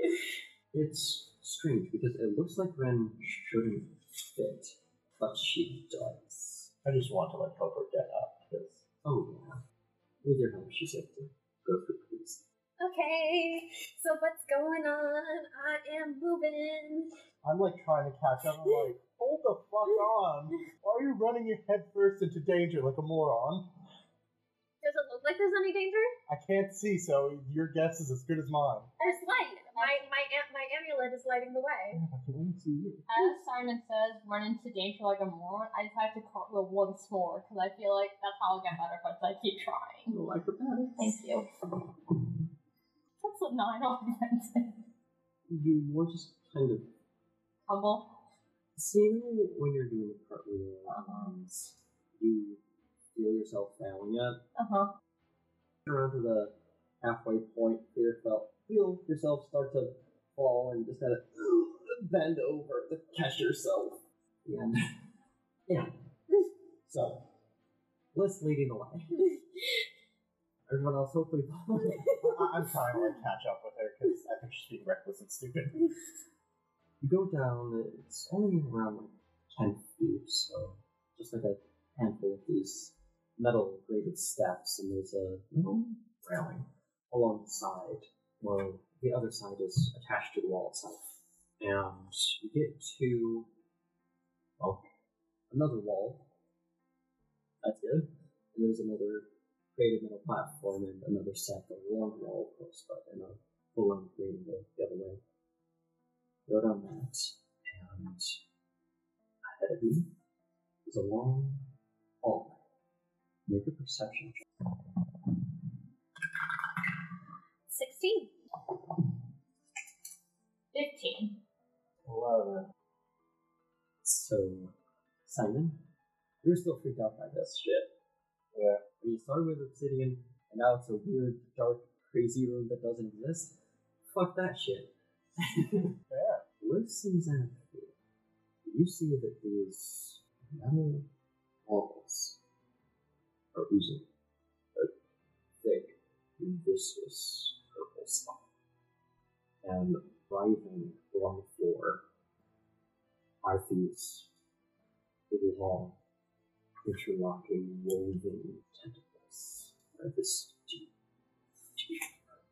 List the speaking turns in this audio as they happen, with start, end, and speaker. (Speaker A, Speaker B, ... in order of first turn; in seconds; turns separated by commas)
Speaker A: 0.7-6.7, Speaker B: 6.8-8.8, Speaker A: 9.0-9.6, Speaker A: 10.2-12.4, Speaker C: 12.8-17.1, Speaker B: 17.4-23.7, Speaker C: 24.8-26.2, Speaker B: 26.3-28.9, Speaker C: 29.0-32.0, Speaker D: 29.0-30.1, Speaker B: 31.9-33.1, Speaker D: 33.1-40.2, Speaker A: 40.1-41.2, Speaker D: 41.0-41.5, Speaker D: 43.2-44.8, Speaker A: 45.5-46.9, Speaker D: 47.7-48.1, Speaker A: 48.8-52.6, Speaker D: 50.9-51.3, Speaker A: 53.1-54.4, Speaker D: 54.6-54.9, Speaker A: 55.9-64.9, Speaker A: 65.7-66.0, Speaker A: 66.9-67.3, Speaker A: 68.1-69.4, Speaker A: 70.7-72.6, Speaker B: 72.1-75.9, Speaker A: 77.0-93.5, Speaker A: 94.6-94.9, Speaker A: 95.5-96.3, Speaker A: 97.6-105.2, Speaker A: 106.5-108.4, Speaker A: 109.4-110.1, Speaker A: 110.9-111.7, Speaker A: 112.2-112.6, Speaker A: 113.5-114.4, Speaker C: 117.7-118.3, Speaker D: 120.7-121.4, Speaker B: 122.0-122.7, Speaker A: 124.0-124.8, Speaker A: 125.3-125.8, Speaker A: 126.4-127.9, Speaker B: 128.5-128.8, Speaker A: 129.0-133.6, Speaker A: 134.1-135.9, Speaker B: 136.0-136.4, Speaker A: 136.6-137.9, Speaker A: 138.7-141.1, Speaker A: 141.7-142.4, Speaker A: 143.5-144.1, Speaker A: 145.6-148.5, Speaker A: 149.6-152.0, Speaker A: 153.4-154.3, Speaker A: 155.3-156.0, Speaker A: 156.8-160.9, Speaker A: 161.8-162.1